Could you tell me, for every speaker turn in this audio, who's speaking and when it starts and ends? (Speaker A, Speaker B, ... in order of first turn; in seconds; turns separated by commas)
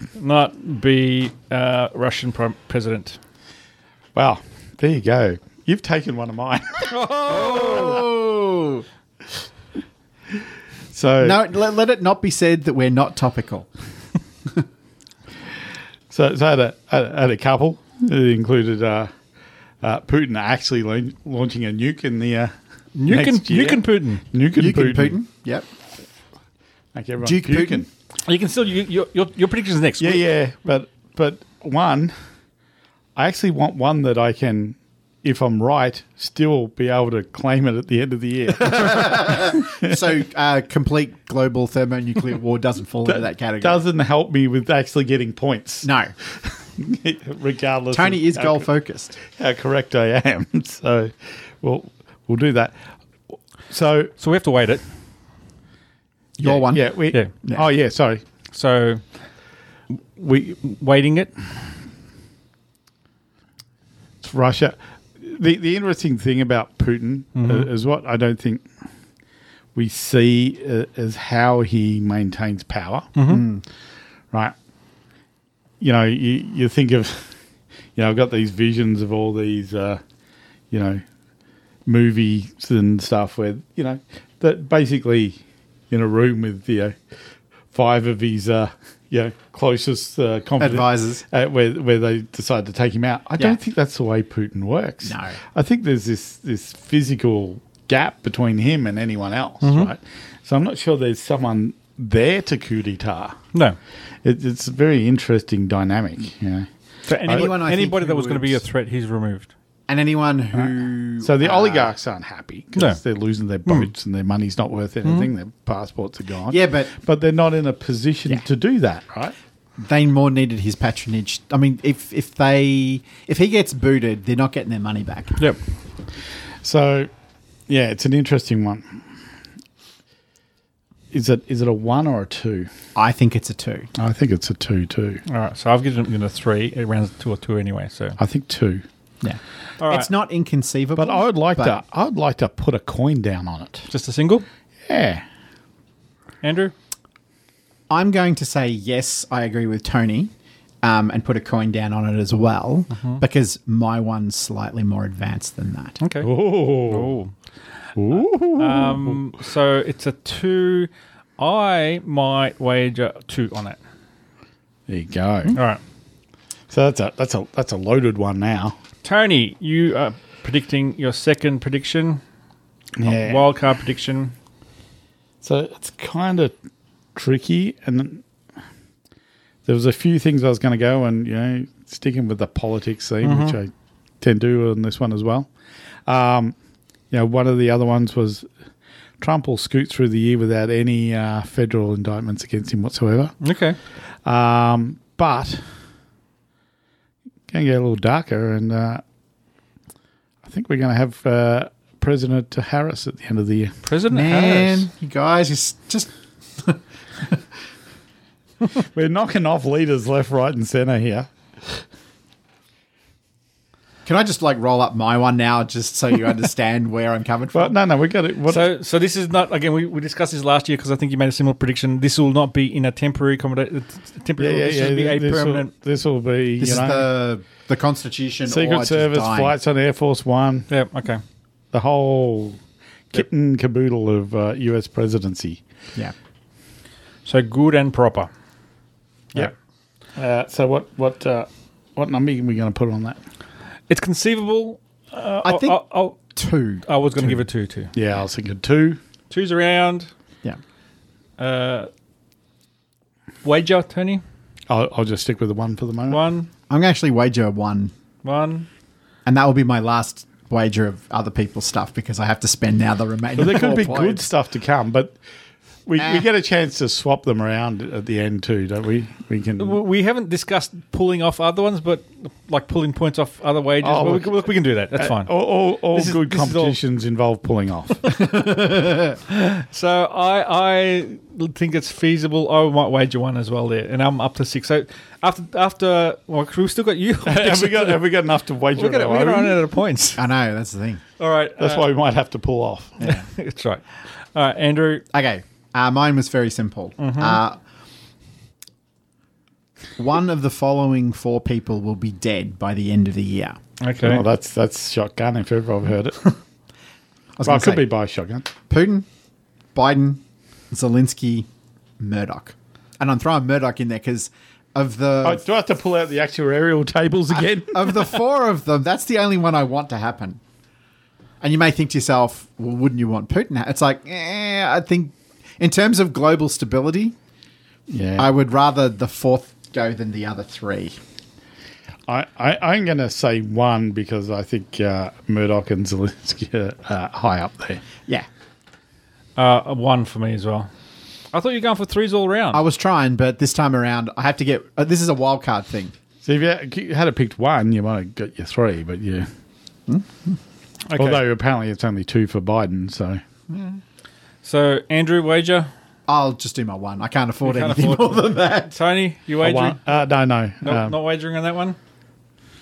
Speaker A: 0.1-3.2, Speaker B: 4.1-7.0, Speaker A: 6.9-8.0, Speaker C: 7.3-8.8, Speaker B: 10.9-11.4, Speaker C: 11.2-13.7, Speaker B: 16.1-19.1, Speaker B: 19.8-22.5, Speaker A: 22.9-24.2, Speaker B: 23.1-25.2, Speaker C: 24.5-25.7, Speaker B: 26.9-27.9, Speaker C: 27.2-27.8, Speaker A: 28.2-30.2, Speaker B: 30.0-32.1, Speaker B: 33.1-39.9, Speaker C: 38.6-43.8, Speaker B: 43.0-45.9, Speaker C: 45.8-46.1, Speaker B: 46.5-48.7, Speaker C: 47.9-49.2, Speaker B: 49.3-52.7, Speaker B: 53.7-54.1, Speaker A: 54.2-54.8, Speaker C: 56.4-57.6, Speaker B: 56.6-58.2, Speaker A: 58.5-59.0, Speaker A: 60.1-61.3, Speaker B: 64.2-68.6, Speaker A: 67.3-67.7, Speaker B: 69.7-73.1, Speaker A: 73.2-73.4, Speaker C: 73.3-73.6, Speaker B: 75.8-77.3, Speaker B: 78.0-80.0, Speaker B: 80.7-81.0, Speaker B: 81.8-85.4, Speaker B: 85.9-87.0, Speaker B: 87.7-103.4, Speaker C: 90.6-91.2, Speaker C: 95.0-95.4, Speaker A: 99.6-99.9, Speaker B: 104.2-106.7, Speaker A: 107.0-109.5, Speaker C: 107.2-108.6, Speaker C: 109.9-111.9, Speaker B: 110.5-119.3, Speaker A: 115.0-115.3, Speaker C: 116.5-116.9, Speaker C: 119.8-125.4, Speaker B: 126.6-127.1, Speaker B: 127.7-129.0, Speaker B: 131.1-132.7, Speaker C: 132.9-133.9, Speaker B: 134.0-135.2, Speaker A: 135.3-138.2, Speaker B: 138.2-138.8, Speaker C: 139.2-141.8, Speaker A: 139.8-140.1, Speaker B: 141.0-143.9, Speaker A: 143.9-144.4, Speaker B: 144.9-145.2, Speaker A: 146.4-146.7, Speaker C: 147.9-156.0, Speaker A: 152.9-153.2, Speaker A: 156.0-157.3, Speaker B: 156.2-157.1, Speaker B: 158.0-159.2, Speaker A: 158.1-163.8, Speaker B: 164.9-165.6, Speaker A: 165.5-165.8, Speaker B: 166.7-168.8, Speaker A: 169.0-172.2, Speaker B: 173.0-173.4, Speaker A: 173.1-174.3, Speaker B: 175.4-176.5, Speaker B: 177.1-178.2, Speaker B: 179.7-183.7, Speaker A: 183.2-183.6, Speaker B: 184.2-185.5, Speaker B: 186.1-186.5, Speaker B: 187.1-188.5, Speaker B: 189.2-193.3, Speaker A: 193.4-193.8, Speaker B: 194.2-195.7, Speaker B: 197.5-199.0, Speaker B: 200.4-203.8, Speaker A: 203.8-204.8, Speaker C: 204.1-207.4, Speaker B: 208.9-211.8, Speaker C: 214.1-217.8, Speaker B: 217.5-218.7, Speaker A: 218.5-225.7, Speaker B: 224.4-227.1, Speaker C: 226.6-229.5, Speaker B: 228.5-230.7, Speaker A: 230.7-231.2, Speaker B: 231.7-232.6, Speaker B: 233.1-235.6, Speaker A: 237.2-238.3, Speaker B: 240.2-243.2, Speaker A: 243.9-246.2, Speaker C: 245.4-246.8, Speaker A: 246.8-247.9, Speaker B: 247.9-249.0, Speaker A: 249.3-250.1, Speaker A: 251.4-251.9, Speaker A: 253.4-254.2, Speaker B: 254.7-256.2, Speaker A: 256.1-256.5, Speaker C: 256.7-257.9, Speaker A: 258.2-258.7, Speaker C: 259.2-264.2, Speaker B: 263.4-265.1, Speaker B: 265.9-269.8, Speaker C: 266.0-266.3, Speaker A: 269.6-275.3, Speaker B: 273.8-278.1, Speaker A: 275.9-276.8, Speaker C: 278.3-279.1, Speaker A: 279.3-288.1, Speaker B: 287.2-289.6, Speaker A: 288.7-290.2, Speaker C: 290.1-291.0, Speaker A: 291.2-291.9, Speaker B: 291.6-293.0, Speaker C: 293.0-293.2, Speaker A: 293.0-293.8, Speaker A: 294.3-295.0, Speaker C: 295.1-297.6, Speaker A: 297.0-297.4, Speaker C: 300.0-303.6, Speaker A: 303.8-304.2, Speaker B: 304.0-306.3, Speaker C: 307.4-307.9, Speaker B: 307.4-308.5, Speaker C: 308.7-309.1, Speaker C: 309.7-311.5, Speaker C: 312.0-315.4, Speaker B: 315.2-318.1, Speaker C: 317.3-320.4, Speaker C: 321.4-327.1, Speaker B: 327.9-328.3, Speaker C: 328.2-330.9, Speaker B: 332.1-337.8, Speaker A: 339.4-340.7, Speaker A: 341.3-342.6, Speaker C: 342.5-345.9, Speaker B: 346.2-349.3, Speaker C: 349.9-350.4, Speaker A: 350.9-351.2, Speaker B: 350.9-353.2, Speaker A: 354.4-355.7, Speaker C: 356.1-358.8, Speaker A: 357.4-359.8, Speaker B: 359.4-361.0, Speaker A: 360.6-361.8